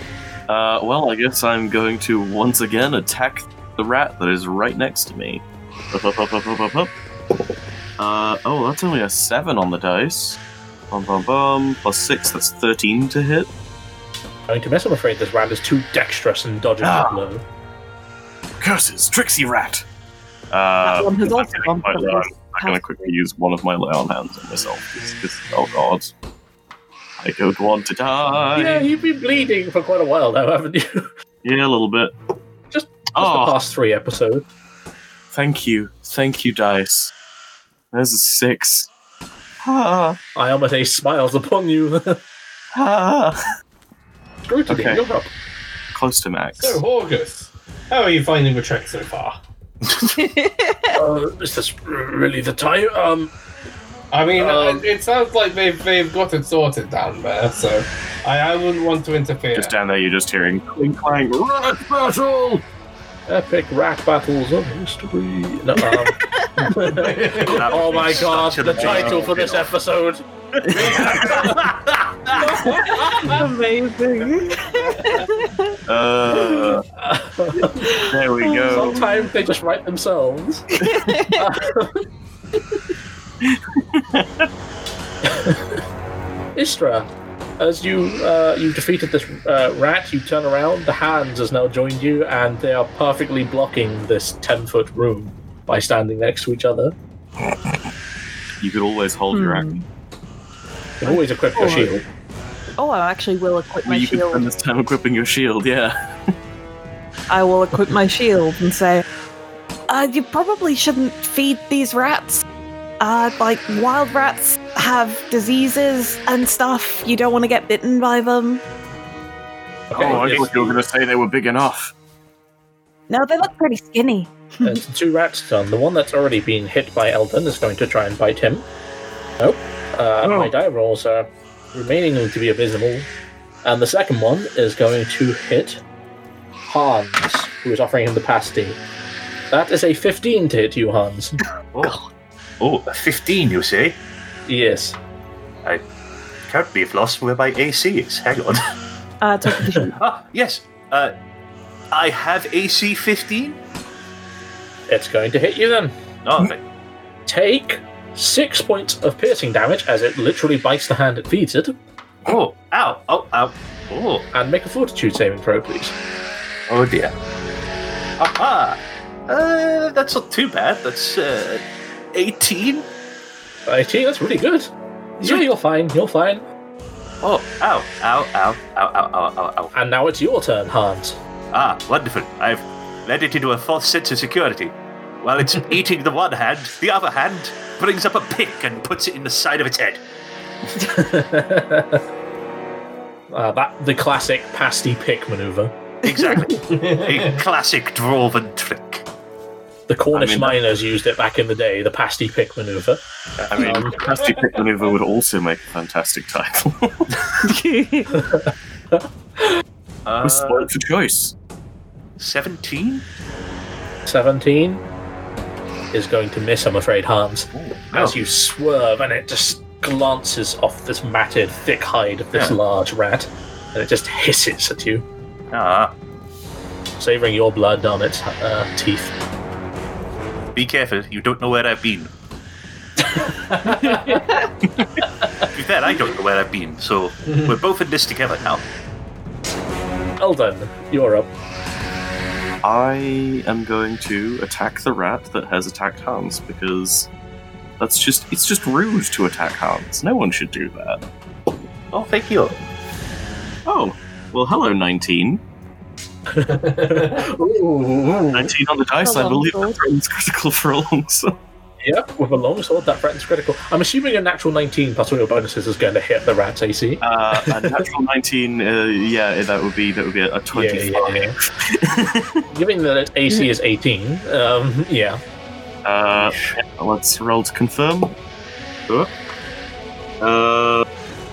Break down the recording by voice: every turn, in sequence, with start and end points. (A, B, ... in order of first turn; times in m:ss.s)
0:00.5-0:06.9 A
0:08.0-0:10.4 A
0:10.9-0:13.5 A
0:14.5-0:17.4 B
0:16.8-0:17.2 A
0:18.6-0:19.8 A
0:20.5-0:26.1 A
0:20.8-0:22.9 C
0:27.2-0:28.9 A
0:28.5-0:31.1 B
0:31.4-0:32.2 A
0:32.7-0:34.4 B
0:33.2-0:33.5 A
0:35.3-0:37.1 A
0:37.9-0:38.9 A
0:39.6-0:40.2 A
0:40.4-0:42.2 B
0:42.7-0:43.4 A
0:44.5-0:45.3 B
0:44.7-0:45.0 A
0:45.9-0:46.8 A
0:46.6-0:49.4 D
0:50.1-0:51.0 C
0:51.0-0:53.3 B
0:54.1-0:59.7 D
0:54.4-0:54.9 B
0:59.5-1:02.6 A
1:03.3-1:11.6 B
1:05.8-1:06.7 C
1:06.9-1:07.8 D
1:07.4-1:09.7 E
1:08.8-1:09.3 A
1:10.6-1:12.6 E
1:10.7-1:11.6 A
1:12.4-1:13.5 B
1:12.8-1:15.8 C
1:15.9-1:16.9 A
1:17.0-1:17.9 B
1:17.8-1:19.3 C
1:18.0-1:19.1 A
1:18.7-1:20.8 B
1:20.8-1:21.7 C
1:21.3-1:22.0 B
1:23.4-1:24.5 A
1:25.2-1:25.8 B
1:26.6-1:37.0 B
1:38.6-1:39.7 A
1:39.3-1:39.9 C
1:41.0-1:42.0 B
1:41.0-1:41.9 C
1:42.8-1:44.5 C
1:43.8-1:45.9 A
1:47.3-1:49.0 C
1:49.9-1:52.4 C
1:53.0-1:58.6 C
1:59.9-2:00.8 B
1:59.9-2:01.9 A
2:00.0-2:00.4 E
2:03.1-2:04.8 C
2:04.6-2:08.7 B
2:09.4-2:13.1 B
2:10.2-2:10.5 A
2:13.6-2:15.8 B
2:16.6-2:18.8 B
2:19.5-2:21.4 B
2:21.7-2:22.0 E
2:22.6-2:24.0 E
2:24.5-2:25.0 B
2:26.5-2:28.6 E
2:29.2-2:30.0 C
2:30.0-2:31.1 E
2:31.9-2:33.6 E
2:34.9-2:35.9 B
2:36.2-2:36.6 E
2:37.3-2:41.8 B
2:42.3-2:44.3 E
2:44.3-2:46.0 B
2:46.7-2:47.1 E
2:48.2-2:51.6 E
2:52.1-2:52.9 E
2:53.7-2:56.4 B
2:57.2-2:59.7 E
2:59.7-3:01.2 B
3:01.5-3:10.0 E
3:10.8-3:12.0 B
3:13.3-3:15.7 B
3:16.0-3:19.0 E
3:16.7-3:17.4 D
3:19.9-3:23.0 B
3:20.1-3:20.6 A
3:23.4-3:23.9 E
3:23.5-3:27.3 A
3:23.6-3:24.0 B
3:27.4-3:28.2 C
3:28.1-3:29.5 B
3:30.1-3:30.7 E
3:30.2-3:31.4 A
3:32.2-3:33.0 E
3:34.1-3:34.8 B
3:35.9-3:45.0 B
3:37.5-3:38.2 E
3:42.3-3:42.6 E
3:45.5-3:45.9 E
3:47.0-3:49.1 B
3:50.6-3:52.1 E
3:53.0-3:54.2 B
3:55.5-3:58.7 E
4:00.2-4:01.3 B
4:02.6-4:07.1 A
4:07.8-4:11.0 A
4:11.9-4:12.6 E
4:13.7-4:15.4 A
4:16.3-4:18.5 B
4:16.5-4:17.3 D
4:18.3-4:21.4 A
4:19.0-4:19.8 C
4:21.8-4:27.8 B
4:27.0-4:32.4 A
4:30.5-4:31.4 B
4:32.5-4:35.2 B
4:35.8-4:38.2 A
4:40.2-4:40.9 A